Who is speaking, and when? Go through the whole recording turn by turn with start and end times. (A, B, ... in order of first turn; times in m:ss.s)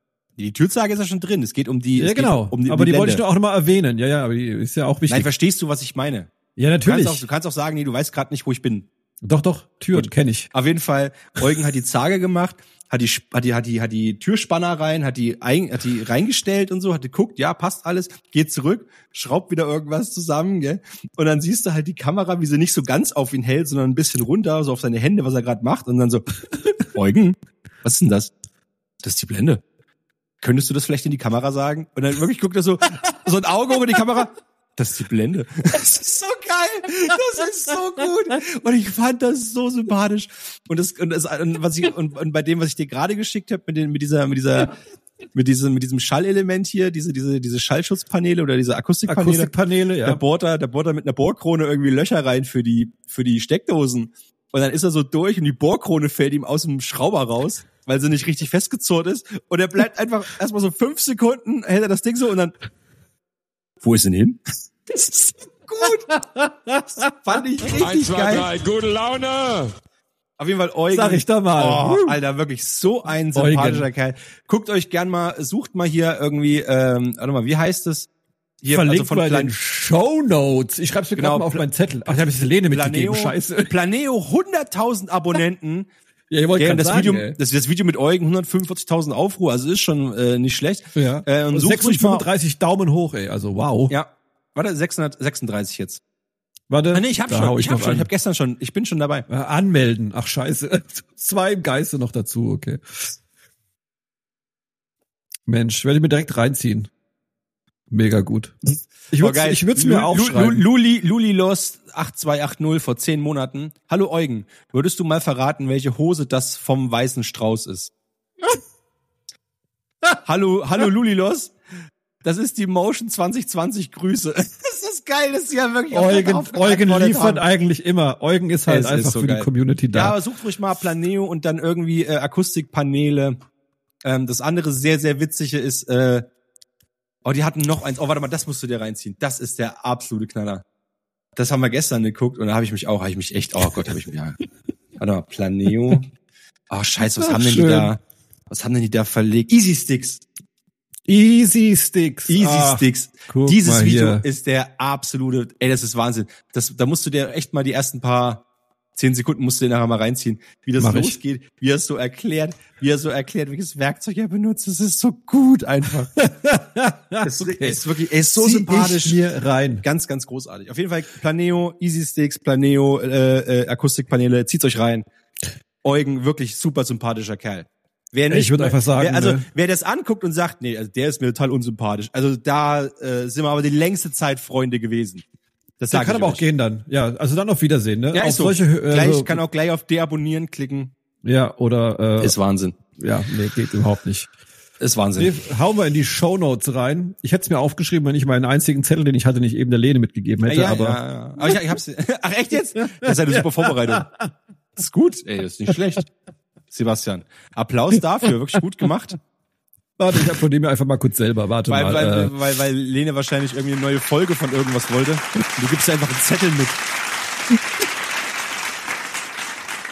0:00.4-0:03.2 A
0:02.0-0:05.3 B
0:05.1-0:06.3 A
0:06.6-0:07.2 B
0:06.8-0:08.9 A
0:09.2-0:10.5 B
0:09.9-0:26.2 A
0:26.8-0:28.3 A
0:29.0-0:29.6 A
0:30.4-0:44.8 A
0:45.3-0:49.5 A
0:49.1-0:50.2 B
0:50.0-1:02.5 A
1:03.8-1:06.1 A
1:05.8-1:07.1 B
1:07.1-1:08.5 A
1:07.7-1:09.7 C
1:10.4-1:18.1 A
1:10.9-1:12.2 B
1:13.3-1:13.9 B
1:18.6-1:19.5 A
1:18.7-1:23.7 B
1:21.2-1:25.9 A
1:26.3-1:27.4 B
1:26.6-1:32.3 A
1:30.9-1:33.9 B
1:33.9-1:36.0 A
1:36.7-1:38.1 B
1:36.9-1:39.3 A
1:39.3-1:43.1 B
1:45.5-1:46.9 B
1:47.9-1:50.6 B
1:49.2-1:57.9 A
2:00.2-2:01.5 A
2:02.2-2:07.4 A
2:05.9-2:10.2 B
2:08.7-2:13.4 A
2:14.0-2:16.3 A
2:17.2-2:20.6 A
2:21.4-2:24.4 A
2:25.0-2:26.1 A
2:26.7-2:30.2 A
2:27.0-2:27.9 B
2:31.0-2:34.2 B
2:32.3-2:38.4 A
2:38.9-2:46.2 A
2:40.8-2:41.2 B
2:46.2-2:47.8 B
2:47.2-2:49.2 A
2:48.4-2:49.8 B
2:49.8-2:55.0 A
2:55.8-3:05.2 A
2:58.3-2:59.4 B
3:05.8-3:06.4 A
3:05.9-3:09.4 B
3:08.1-3:10.9 A
3:11.2-3:12.4 B
3:12.2-3:12.8 A
3:12.9-3:14.3 B
3:14.8-3:15.3 A
3:15.2-3:21.6 B
3:20.4-3:24.1 A
3:23.0-3:24.3 B
3:24.8-3:26.1 A
3:26.7-3:29.2 A
3:30.0-3:32.3 B
3:31.7-3:36.8 A